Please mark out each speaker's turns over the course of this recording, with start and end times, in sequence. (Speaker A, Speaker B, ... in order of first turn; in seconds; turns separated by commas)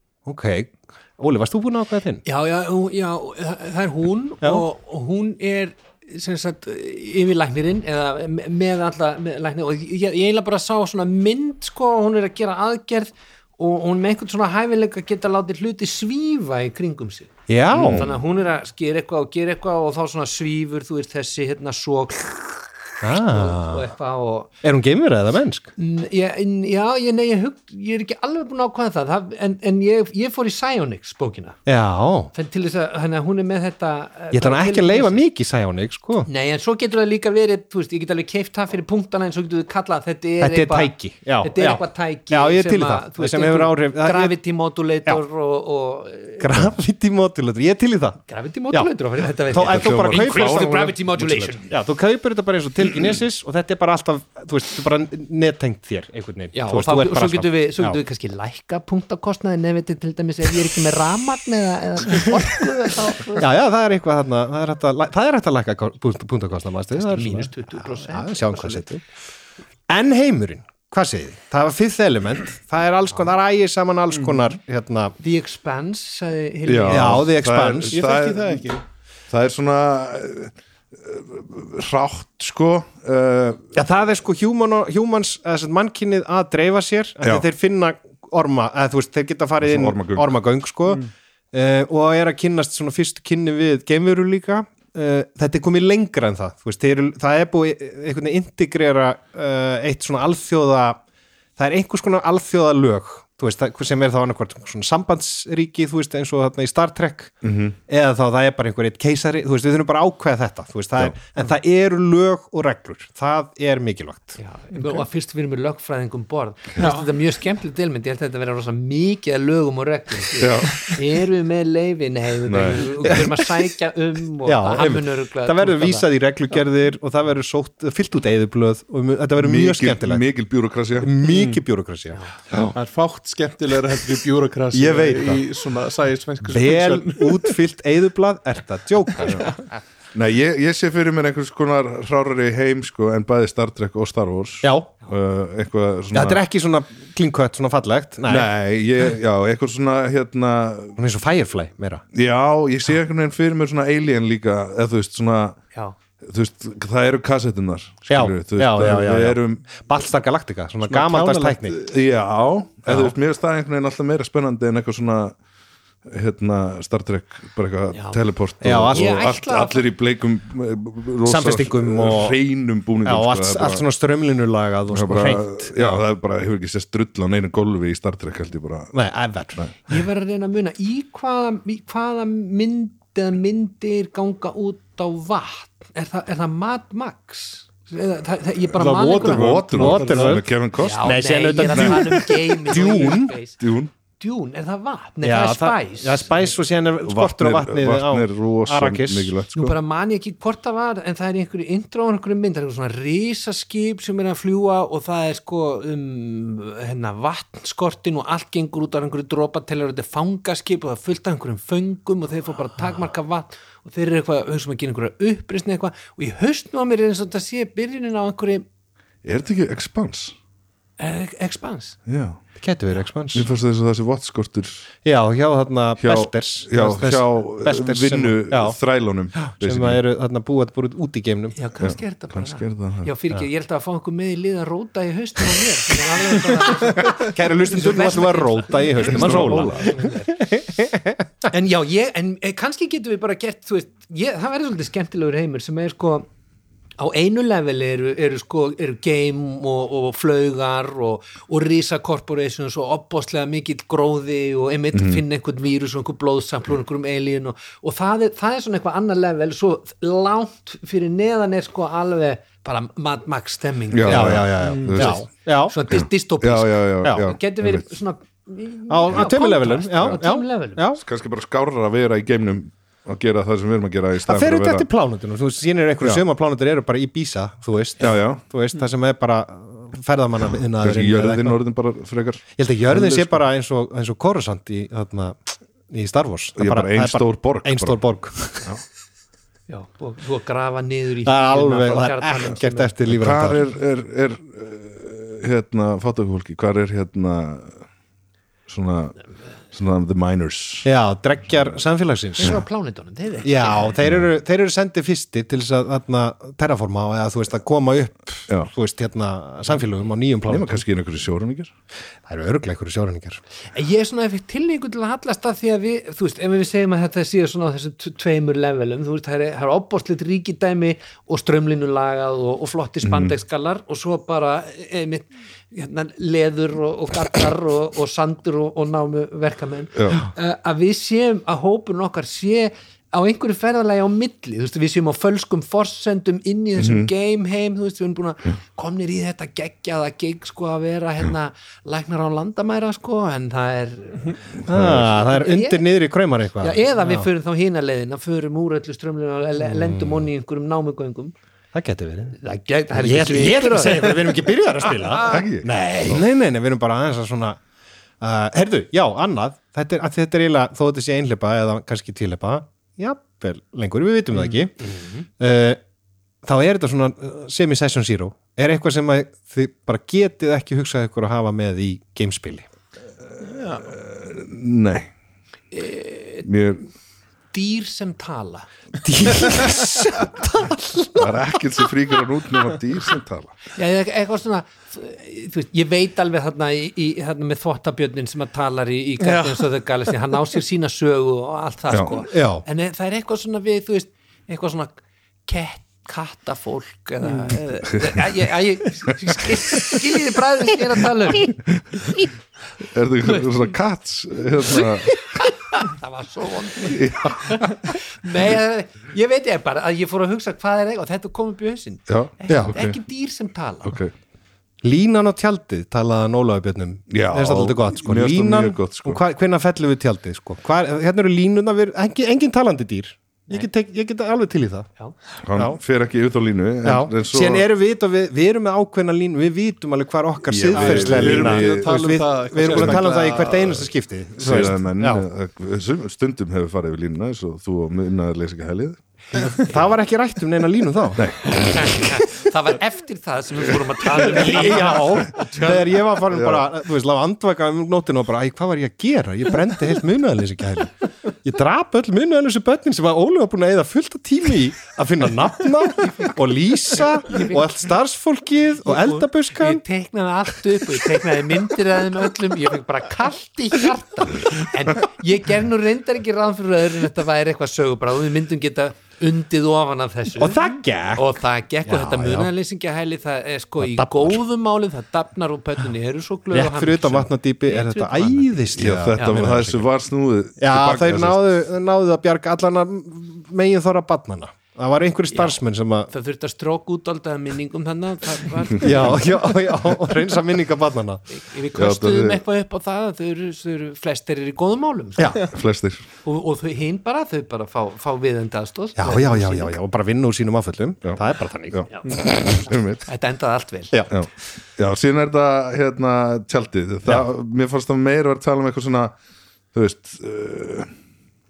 Speaker A: 0.3-2.2, Speaker B: 2.2-24.5, Speaker A: 17.5-18.1, Speaker C: 17.7-18.1, Speaker A: 23.0-23.9, Speaker A: 24.6-25.7, Speaker B: 25.8-31.6, Speaker A: 31.7-32.3, Speaker B: 32.3-35.2, Speaker A: 34.3-36.3, Speaker B: 36.3-46.6, Speaker A: 40.4-44.4, Speaker A: 46.4-48.9, Speaker B: 48.3-51.7, Speaker A: 49.5-58.0, Speaker C: 49.6-51.5, Speaker B: 56.5-63.5, Speaker A: 63.4-69.0, Speaker B: 66.9-68.8, Speaker A: 69.9-75.2, Speaker D: 74.2-74.5, Speaker B: 75.2-77.3, Speaker C: 76.7-78.7, Speaker A: 76.9-78.0, Speaker D: 77.9-78.8, Speaker C: 79.3-83.7, Speaker A: 83.7-101.0, Speaker C: 87.2-87.5, Speaker C: 89.6-90.3, Speaker A: 101.6-107.3, Speaker C: 107.4-107.8, Speaker A: 107.9-114.4, Speaker B: 114.4-126.1, Speaker D: 114.8-115.0, Speaker D: 116.8-117.1, Speaker C: 120.4-120.8, Speaker C: 122.5-123.2, Speaker A: 123.0-123.3, Speaker A: 124.5-130.2, Speaker C: 129.4-131.1, Speaker A: 131.0-132.7, Speaker D: 131.2-131.6, Speaker D: 132.7-137.6, Speaker A: 134.7-135.4, Speaker A: 136.4-139.5, Speaker D: 139.2-139.5, Speaker C: 140.1-146.4, Speaker A: 144.6-144.9, Speaker A: 146.1-148.5, Speaker C: 148.3-151.0, Speaker A: 151.0-152.0, Speaker C: 152.1-155.6, Speaker C: 156.2-159.8, Speaker A: 158.1-161.8, Speaker D: 160.9-161.8, Speaker C: 161.8-165.4, Speaker A: 162.9-163.1, Speaker C: 166.1-173.8, Speaker B: 167.9-168.2, Speaker A: 168.6-169.3, Speaker B: 168.9-169.8, Speaker A: 171.2-172.4, Speaker A: 173.0-176.0, Speaker C: 174.9-179.0, Speaker A: 178.9-179.6, Speaker B: 179.9-189.7, Speaker D: 188.8-190.4, Speaker C: 189.2-192.1, Speaker A: 189.7-193.3, Speaker B: 190.8-193.6, Speaker C: 192.8-193.9, Speaker B: 194.2-196.3, Speaker A: 195.2-199.3, Speaker C: 197.0-199.8, Speaker B: 199.5-218.7, Speaker C: 219.2-220.3, Speaker B: 221.0-222.0, Speaker C: 222.1-222.4, Speaker A: 222.6-223.5, Speaker C: 223.3-224.9, Speaker A: 225.1-228.8, Speaker C: 226.0-230.0, Speaker A: 229.3-231.6, Speaker B: 231.6-240.4, Speaker C: 231.8-233.1, Speaker A: 236.7-241.2, Speaker C: 239.0-240.0, Speaker B: 241.5-246.3, Speaker B: 247.0-270.8, Speaker C: 254.9-255.2, Speaker C: 263.9-265.2, Speaker A: 264.1-265.8, Speaker D: 264.6-265.1, Speaker C: 265.9-267.9, Speaker A: 267.0-267.3, Speaker A: 268.9-271.0, Speaker C: 271.0-274.9, Speaker A: 274.2-281.6, Speaker C: 278.0-278.4, Speaker C: 280.8-283.4, Speaker A: 282.6-288.7, Speaker C: 286.6-288.0, Speaker B: 289.7-292.9, Speaker A: 291.2-293.6, Speaker C: 293.1-297.8, Speaker C: 298.7-299.2, Speaker C: 299.7-300.9, Speaker A: 300.8-302.6, Speaker B: 302.4-303.9, Speaker A: 303.4-310.8, Speaker C: 310.5-311.7, Speaker A: 312.3-313.4, Speaker B: 313.7-345.9, Speaker C: 323.0-323.3, Speaker C: 329.9-330.2, Speaker C: 336.8-337.1, Speaker C: 344.7-345.1, Speaker A: 344.7-347.3, Speaker B: 346.6-351.3, Speaker A: 349.7-350.2, Speaker A: 351.7-352.4, Speaker B: 352.4-355.5, Speaker A: 352.9-357.6, Speaker C: 355.2-356.2, Speaker A: 358.2-364.9, Speaker B: 364.8-365.2, Speaker A: 365.4-365.8, Speaker A: 366.4-372.6, Speaker D: 373.4-373.9, Speaker C: 373.8-375.1, Speaker B: 375.7-376.5, Speaker C: 376.4-376.9, Speaker B: 377.5-378.7, Speaker A: 379.0-381.3, Speaker C: 381.2-383.6, Speaker B: 383.7-401.6, Speaker D: 389.2-389.6, Speaker A: 392.3-392.6, Speaker D: 397.3-397.6, Speaker C: 401.8-402.1, Speaker C: 402.8-405.4, Speaker B: 404.8-414.0, Speaker C: 406.8-407.8, Speaker C: 412.1-413.0, Speaker A: 412.5-412.8, Speaker C: 413.8-414.1, Speaker A: 414.8-424.9, Speaker C: 417.1-419.2, Speaker C: 425.4-427.7, Speaker A: 426.8-435.2, Speaker C: 430.5-432.0, Speaker D: 430.7-433.9, Speaker C: 432.7-433.1, Speaker C: 434.4-439.0, Speaker A: 439.6-441.3, Speaker C: 441.1-441.9, Speaker B: 441.4-446.0, Speaker A: 444.1-459.8, Speaker C: 446.3-446.7, Speaker B: 457.3-457.7, Speaker B: 458.9-478.5, Speaker A: 470.4-472.5, Speaker A: 473.8-474.4, Speaker A: 476.5-479.9, Speaker C: 478.8-481.5, Speaker B: 479.1-479.4, Speaker A: 480.6-486.1, Speaker B: 485.3-489.6, Speaker A: 488.8-491.2, Speaker B: 491.3-495.5, Speaker C: 491.8-492.4, Speaker A: 495.2-495.4, Speaker C: 495.4-496.0, Speaker B: 496.2-499.8, Speaker A: 499.0-502.6, Speaker C: 501.7-503.1, Speaker B: 501.9-504.0, Speaker C: 504.1-509.2, Speaker C: 509.7-510.9